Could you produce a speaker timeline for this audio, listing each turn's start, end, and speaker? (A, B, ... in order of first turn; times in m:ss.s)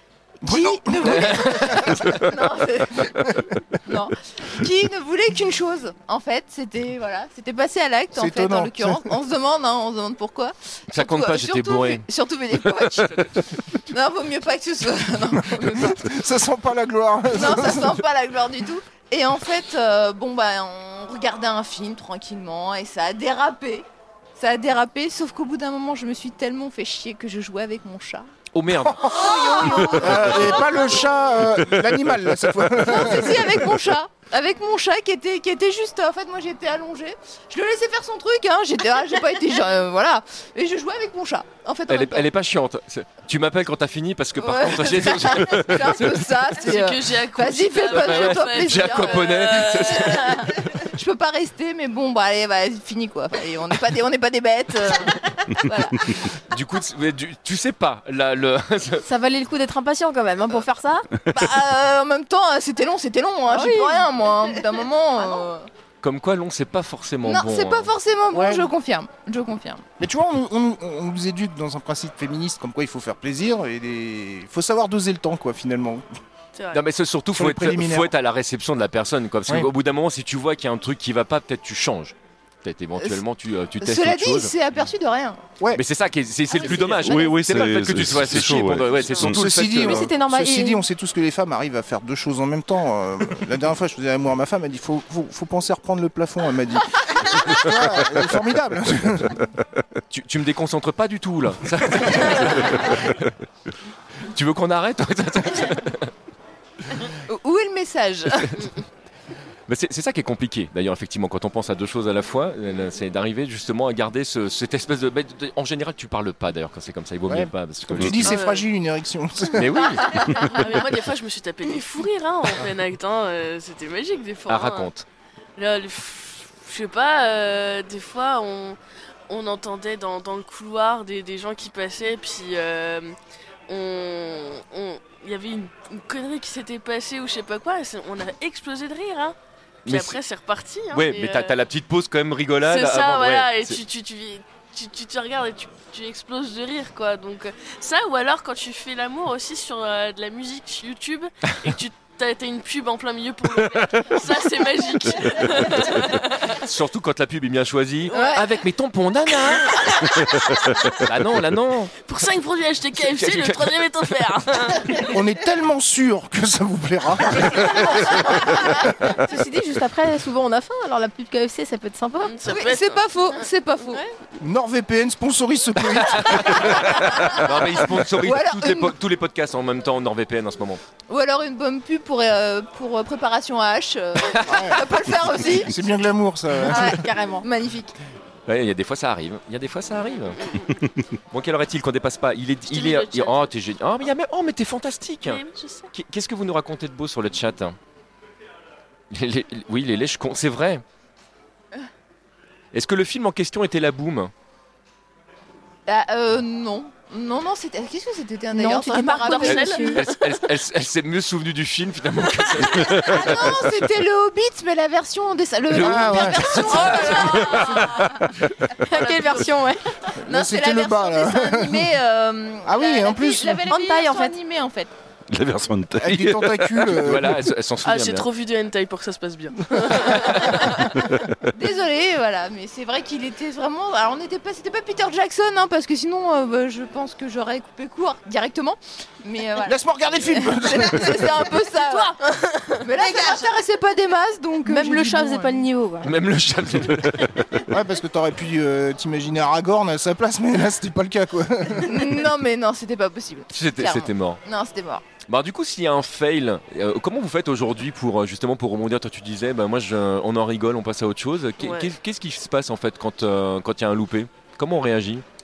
0:00.4-0:03.3 A
0:00.4-0:02.3 B
0:01.0-0:02.2 C
0:03.1-0:03.6 B
0:03.8-0:13.3 A
0:08.1-0:09.1 B
0:10.9-0:12.0 C
0:12.7-0:13.4 C
0:13.8-0:16.0 A
0:15.4-0:18.0 B
0:17.3-0:23.8 A
0:24.4-0:28.3 A
0:28.5-0:30.5 C
0:28.8-0:29.3 B
0:29.0-0:31.1 A
0:29.9-0:33.6 B
0:32.8-0:42.3 A
0:41.9-0:46.3 C
0:44.4-0:56.3 A
0:46.6-0:50.4 D
0:47.8-0:50.7 C
0:56.5-0:59.0 C
0:59.0-1:01.1 E
1:01.3-1:05.7 A
1:03.5-1:04.0 E
1:06.0-1:07.9 C
1:07.2-1:09.8 A
1:08.3-1:08.7 B
1:10.0-1:16.0 B
1:16.5-1:16.8 D
1:16.7-1:24.5 C
1:17.4-1:18.1 B
1:23.8-1:25.4 A
1:25.7-1:30.1 C
1:26.5-1:27.3 A
1:27.0-1:29.4 F
1:29.2-1:39.4 B
1:29.7-1:30.8 E
1:40.1-1:43.3 C
1:44.3-1:46.1 C
1:47.2-1:48.6 A
1:49.7-1:58.4 C
1:57.3-2:00.5 B
1:58.0-1:58.2 F
1:58.2-1:58.7 D
1:59.5-2:00.7 C
2:00.4-2:04.9 D
2:04.5-2:05.0 C
2:05.6-2:08.8 D
2:09.3-2:13.2 D
2:13.7-2:21.6 D
2:19.8-2:20.2 C
2:20.9-2:23.8 C
2:22.6-2:36.6 D
2:33.8-2:34.1 C
2:35.5-2:40.1 C
2:38.1-2:38.4 A
2:38.1-2:38.4 D
2:39.8-2:40.8 D
2:40.9-2:41.9 C
2:42.0-2:45.1 D
2:42.9-2:44.7 C
2:45.1-2:48.8 B
2:48.4-2:48.7 A
2:49.0-2:52.4 E
2:52.2-2:53.4 D
2:52.5-2:54.0 A
2:54.4-2:57.9 B
2:55.9-3:00.8 C
2:56.9-2:57.5 A
2:58.1-2:58.9 A
3:01.1-3:05.9 A
3:04.3-3:04.7 C
3:04.4-3:07.0 B
3:06.6-3:07.4 E
3:06.7-3:07.9 A
3:08.5-3:10.4 C
3:10.4-3:10.7 D
3:11.3-3:17.8 C
3:12.7-3:13.5 D
3:15.2-3:15.9 D
3:19.1-3:20.8 C
3:22.7-3:24.3 C
3:25.9-3:29.9 A
3:28.5-3:30.0 E
3:29.2-3:30.3 D
3:29.5-3:33.6 C
3:32.9-3:38.1 A
3:35.7-3:37.9 C
3:35.8-3:36.7 B
3:36.7-3:38.0 E
3:38.8-3:39.8 E
3:38.9-3:39.2 A
3:40.2-3:42.0 B
3:40.2-3:44.9 A
3:42.6-3:43.6 B
3:43.6-3:44.4 E
3:45.3-3:47.3 F
3:46.0-3:47.4 B
3:47.0-3:48.3 C
3:47.8-3:50.9 D
3:50.2-3:50.5 C
3:51.5-4:02.2 A
3:59.6-4:01.6 B
4:02.8-4:05.6 A
4:04.6-4:06.1 E
4:06.0-4:07.6 C
4:07.7-4:12.2 B
4:11.8-4:15.0 A
4:13.5-4:14.4 C
4:15.3-4:25.2 C
4:21.6-4:21.9 D